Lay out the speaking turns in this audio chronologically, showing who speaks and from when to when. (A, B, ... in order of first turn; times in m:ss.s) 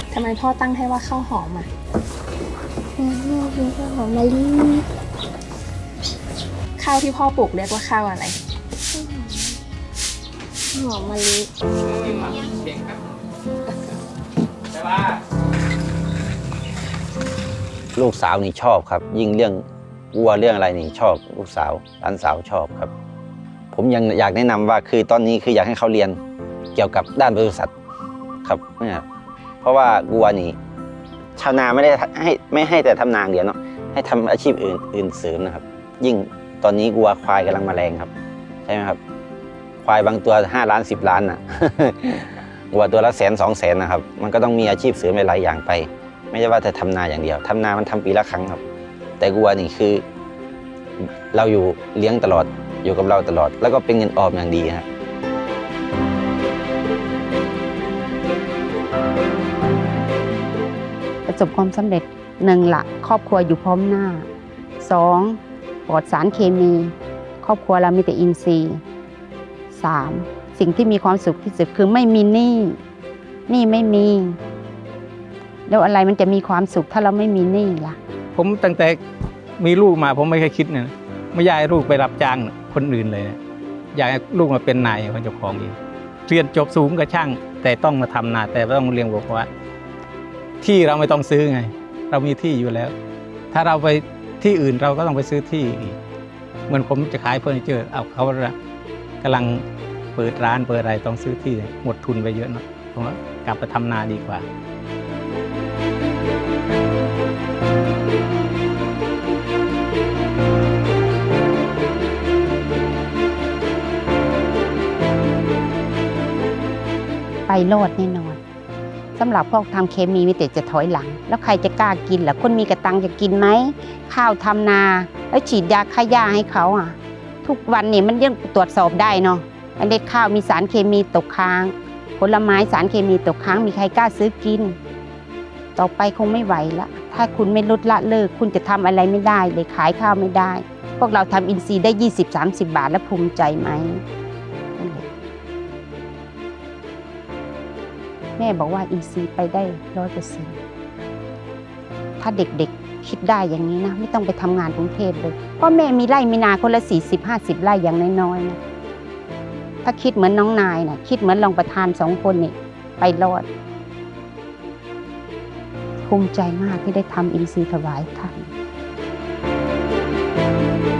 0:00.1-0:01.7 A
0:03.0-0:04.8 B
0:06.8-0:08.4 A
0:09.0-0:09.4 B
0:10.7-0:11.5 B
0:18.0-0:19.6 C
0:20.1-0:22.9 C
0:23.7-0:26.2 C
0:26.8-0:27.7 C
0:28.4-0:29.0 C
0:29.6-0:30.6 C
0:31.4-0:38.1 C
0:38.7-0:39.0 C
0:39.8-0:48.6 C
0:49.2-0:50.0 C
0:51.3-0:54.8 C
1:01.3-1:04.3 D
1:04.8-1:08.8 D
1:09.7-1:12.8 D
1:13.5-1:14.4 D
1:15.7-1:18.0 D
1:18.4-1:19.0 E
1:19.6-1:23.4 E
1:23.9-1:29.5 E
1:30.6-1:32.9 E
1:33.5-1:36.0 E
1:36.7-1:38.6 E
1:39.2-1:39.6 E
1:40.2-1:44.5 E
1:57.5-1:58.4 D
1:59.2-2:14.8 D
2:15.8-2:24.0 D
2:24.8-2:25.0 D
2:28.4-2:30.6 D
2:32.2-2:38.6 D
2:39.8-2:43.5 D
2:46.1-2:48.5 D